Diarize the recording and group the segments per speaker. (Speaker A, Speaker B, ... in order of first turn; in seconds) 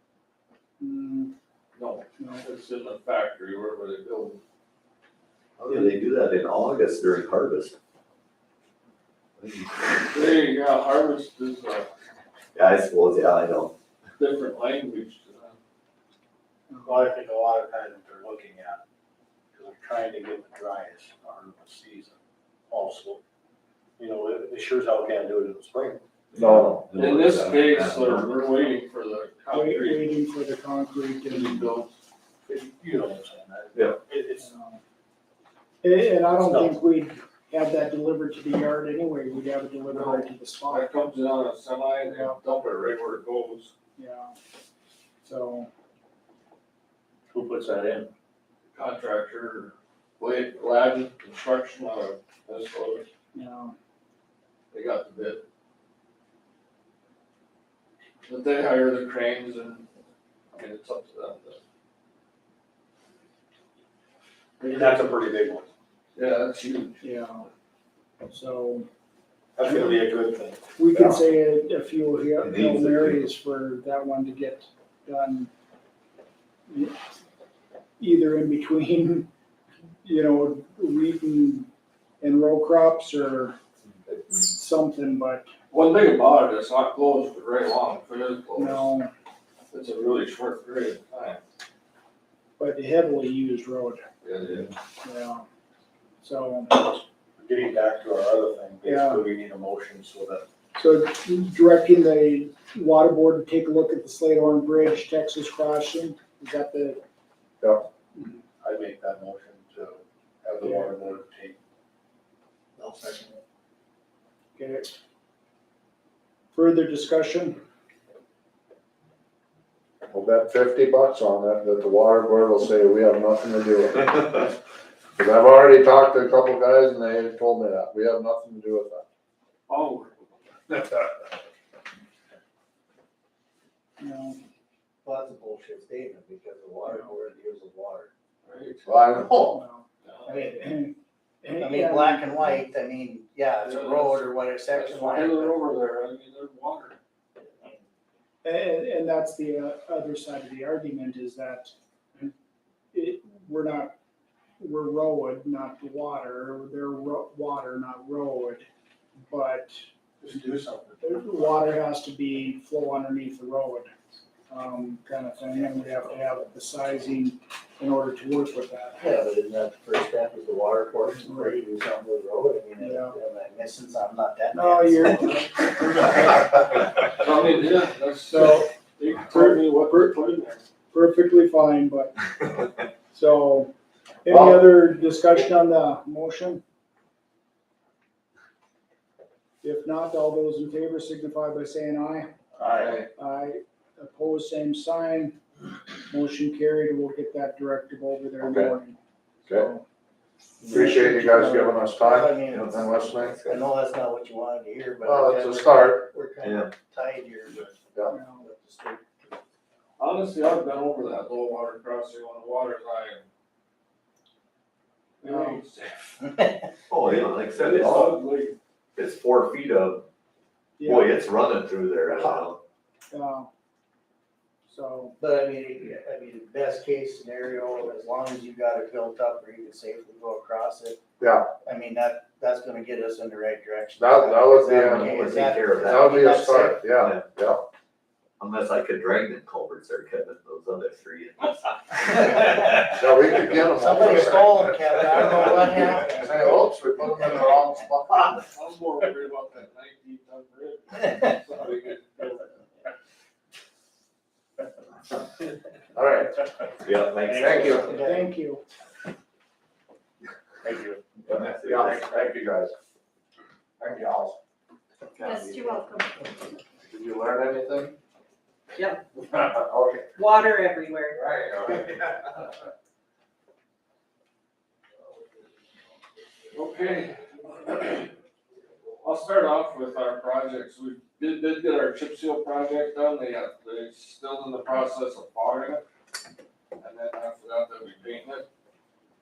Speaker A: 0.8-1.3, 2.2-2.4, 16.7-17.0, 29.5-31.7, 34.4-34.8, 35.8-40.9, 44.0-44.3, 45.2-45.7, 53.3-53.7, 67.0-67.5, 68.3-68.9, 69.6-70.0, 70.8-75.5, 76.7-76.9, 78.0-79.3, 80.0-81.7, 82.2-83.5, 84.1-85.5, 88.6-89.1, 92.6-94.0, 95.0-95.4, 96.2-96.8, 98.8-99.2, 100.7-107.0, 110.6-110.9, 114.6-114.9, 116.5-117.6, 134.0-134.4, 136.8-137.1, 139.3-139.9, 140.5-142.6, 148.4-152.3, 152.9-153.9, 154.6-158.7, 159.3-159.8, 161.0-163.9, 164.5-169.1, 171.1-171.6, 172.8-173.2, 174.5-176.5, 178.2-180.1, 180.9-182.3, 183.1-183.7, 184.2-186.6, 189.6-192.3, 193.2-195.4, 196.1-199.8, 200.7-201.5, 208.1-208.5, 215.2-215.6, 220.8-221.2, 223.1-223.5, 224.7-225.2, 257.8-258.6
Speaker B: 1.7-4.4, 10.1-11.9, 14.2-15.6, 26.9-30.1, 39.9-43.7, 48.7-53.1, 54.7-55.4, 58.3-59.9, 60.5-61.6, 66.1-67.0, 85.7-88.9, 89.7-91.4, 94.2-94.7, 129.7-131.1, 138.4-139.2, 140.0-140.5, 143.6-147.0, 177.1-180.6, 192.7-193.1, 210.0-213.2, 215.2-216.3, 217.1-218.6, 248.5-252.6, 276.5-278.1, 279.0-285.8, 286.8-288.4
Speaker C: 5.6-7.7, 9.4-10.1, 12.5-13.7, 26.3-28.3, 72.5-73.2, 202.5-203.6, 206.4-206.7, 216.9-218.2, 218.9-220.1, 220.8-222.6, 234.8-236.2, 238.4-242.2, 256.8-257.9, 261.4-262.0
Speaker D: 16.8-18.8, 19.5-22.1, 22.7-23.2, 24.0-26.0, 31.3-31.9, 32.5-34.5, 36.3-36.8, 64.6-65.7, 69.5-70.6, 97.4-100.4, 108.6-111.5, 112.8-113.3, 160.2-161.7
Speaker E: 26.4-26.9, 70.9-71.2, 120.1-124.5, 125.2-129.0, 138.8-139.6, 198.4-198.7, 200.6-203.3, 205.1-206.1, 231.2-231.5, 234.0-235.2, 235.8-237.6, 242.8-244.7, 245.4-248.4, 255.9-256.4, 257.3-257.9, 261.3-262.7, 263.8-264.4, 265.3-265.7, 266.9-267.9, 269.3-270.1, 271.1-272.2
Speaker F: 135.0-138.1, 140.2-140.6, 141.6-145.6, 169.0-175.5, 200.7-207.8, 208.4-209.3, 216.2-216.6, 225.2-231.0, 231.6-236.8, 243.6-246.6, 257.3-258.3
Speaker G: 265.2-266.1, 270.1-271.2